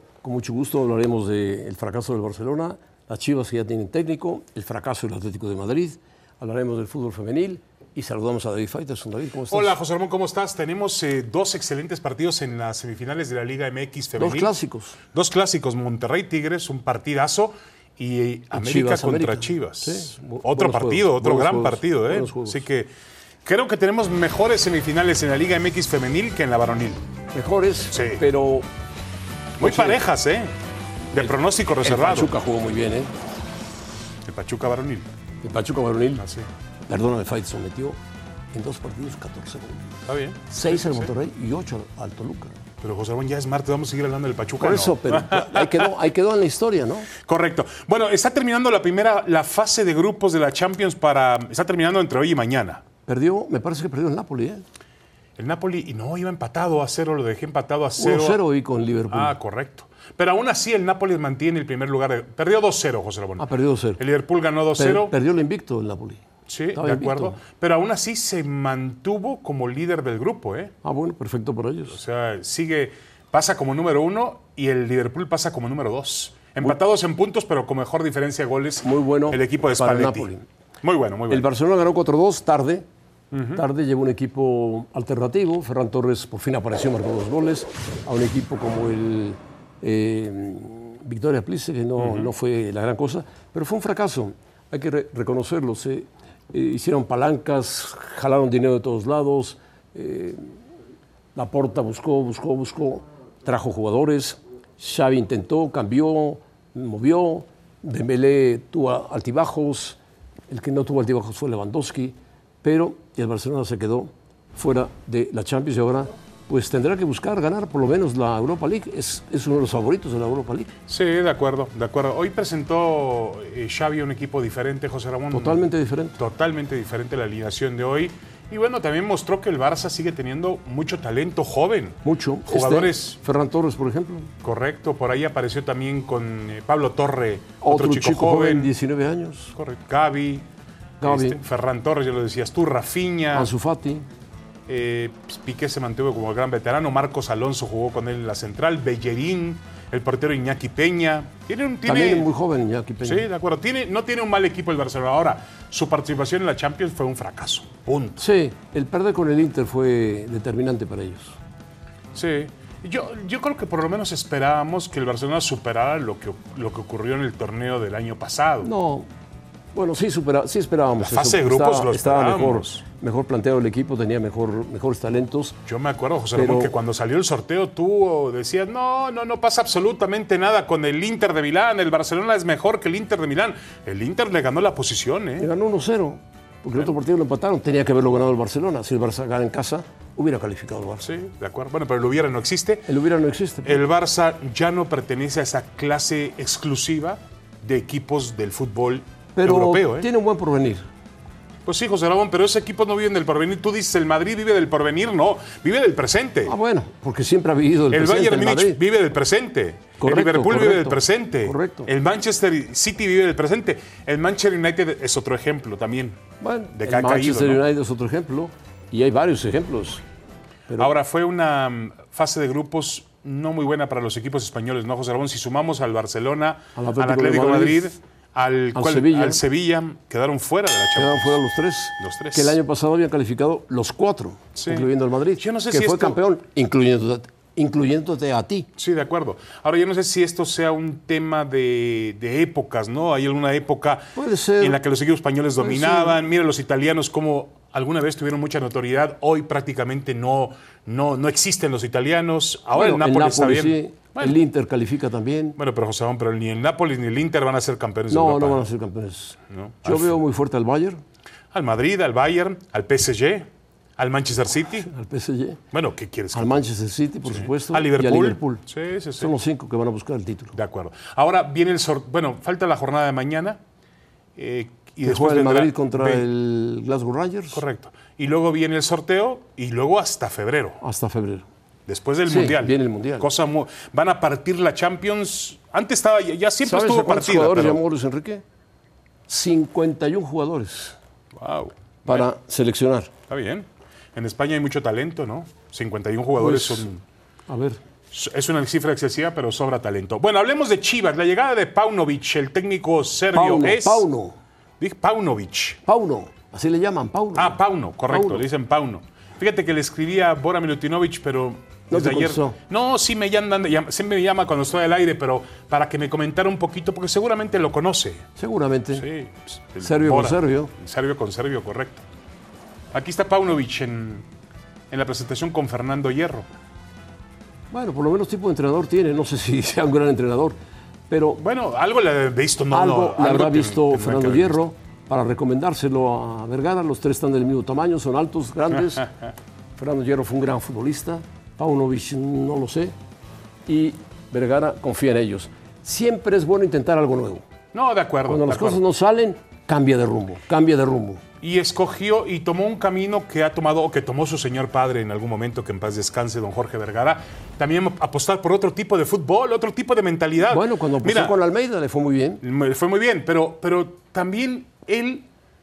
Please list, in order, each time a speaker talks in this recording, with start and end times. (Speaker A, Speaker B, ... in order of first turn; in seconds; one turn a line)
Speaker A: 0.2-9.7
Speaker B: 9.5-14.5
Speaker A: 14.2-15.0
Speaker B: 15.1-22.9
Speaker A: 18.5-22.6
Speaker B: 23.4-27.0
Speaker A: 27.3-28.7
Speaker B: 27.9-28.2
Speaker B: 29.6-30.5
Speaker A: 29.6-30.0
Speaker B: 31.1-32.3
Speaker A: 31.2-33.1
Speaker B: 34.3-35.1
Speaker A: 35.4-36.2
Speaker B: 36.2-36.5
Speaker A: 36.9-38.0
Speaker A: 38.5-40.0
Speaker B: 40.0-41.1
Speaker A: 40.5-42.5
Speaker B: 42.8-45.9
Speaker A: 44.6-47.1
Speaker B: 47.2-52.8
Speaker A: 53.0-54.6
Speaker B: 55.4-58.4
Speaker A: 58.0-59.4
Speaker B: 59.1-65.1
Speaker A: 63.4-64.0
Speaker A: 64.8-66.2
Speaker B: 66.5-70.7
Speaker A: 66.7-67.3
Speaker A: 70.8-72.0
Speaker B: 71.9-80.3
Speaker A: 78.8-80.5
Speaker B: 80.8-81.5
Speaker A: 81.3-82.8
Speaker B: 83.3-83.6
Speaker A: 83.5-100.6
Speaker B: 92.0-92.3
Speaker A: 101.3-120.7
Speaker B: 120.9-133.2
Speaker A: 125.3-126.2
Speaker A: 132.0-134.3
Speaker B: 134.4-138.7
Speaker A: 137.6-139.6
Speaker B: 139.6-140.5
Speaker A: 141.0-141.4
Speaker B: 141.0-143.5
Speaker A: 143.3-144.0
Speaker B: 144.7-152.3
Speaker A: 151.8-153.2
Speaker B: 153.0-158.2
Speaker A: 158.2-161.4
Speaker B: 162.1-168.7
Speaker A: 168.6-169.1
Speaker A: 169.8-175.6
Speaker B: 171.0-172.8
Speaker B: 175.7-185.5
Speaker A: 176.3-176.8
Speaker A: 185.4-191.1
Speaker B: 191.0-192.9
Speaker A: 192.9-193.8
Speaker B: 193.6-200.1
Speaker A: 199.3-200.8
Speaker B: 201.6-206.5
Speaker A: 206.4-208.8
Speaker B: 207.9-216.2
Speaker A: 210.0-211.9
Speaker A: 216.4-220.0
Speaker B: 216.7-217.6
Speaker B: 220.8-231.4
Speaker A: 226.8-227.9
Speaker A: 228.7-229.4
Speaker A: 230.9-238.7
Speaker B: 232.0-232.6
Speaker B: 234.5-236.2
Speaker B: 238.8-254.4
Speaker A: 244.2-244.8
Speaker A: 245.6-246.2
Speaker A: 252.7-255.6
Speaker B: 255.6-258.6
Speaker A: 258.1-261.0
Speaker B: 259.5-260.2
Speaker B: 261.5-264.9
Speaker A: 264.8-265.6
Speaker B: 265.7-266.6
Speaker A: 266.3-268.6
Speaker B: 267.2-269.3
Speaker A: 269.2-270.6
Speaker B: 270.6-273.6
Speaker B: 274.4-276.2
Speaker A: 275.0-277.6
Speaker B: 277.5-280.8
Speaker A: 280.8-281.5
Speaker B: 281.9-287.8
Speaker A: 282.2-283.3
Speaker A: 286.6-288.4
Speaker A: 289.3-291.0
Speaker B: 291.4-292.3
Speaker A: 292.1-293.1
Speaker B: 293.3-297.0
Speaker A: 296.4-296.9
Speaker A: 297.5-297.8
Speaker B: 298.1-304.1
Speaker A: 303.3-304.4
Speaker B: 304.8-305.8
Speaker A: 305.9-307.6
Speaker B: 307.4-318.3
Speaker A: 308.1-308.4
Speaker A: 311.9-312.6
Speaker A: 318.4-319.1
Speaker B: 318.9-322.0
Speaker A: 319.8-320.7
Speaker B: 322.9-324.2
Speaker B: 324.9-326.5
Speaker A: 327.7-330.6
Speaker A: 331.1-331.4
Speaker B: 331.4-334.6
Speaker A: 332.7-339.1
Speaker B: 338.7-339.3
Speaker A: 339.8-342.9
Speaker A: 343.7-347.4
Speaker B: 347.7-348.8
Speaker A: 348.2-351.2
Speaker B: 351.4-361.4
Speaker A: 360.5-362.4
Speaker B: 362.4-365.3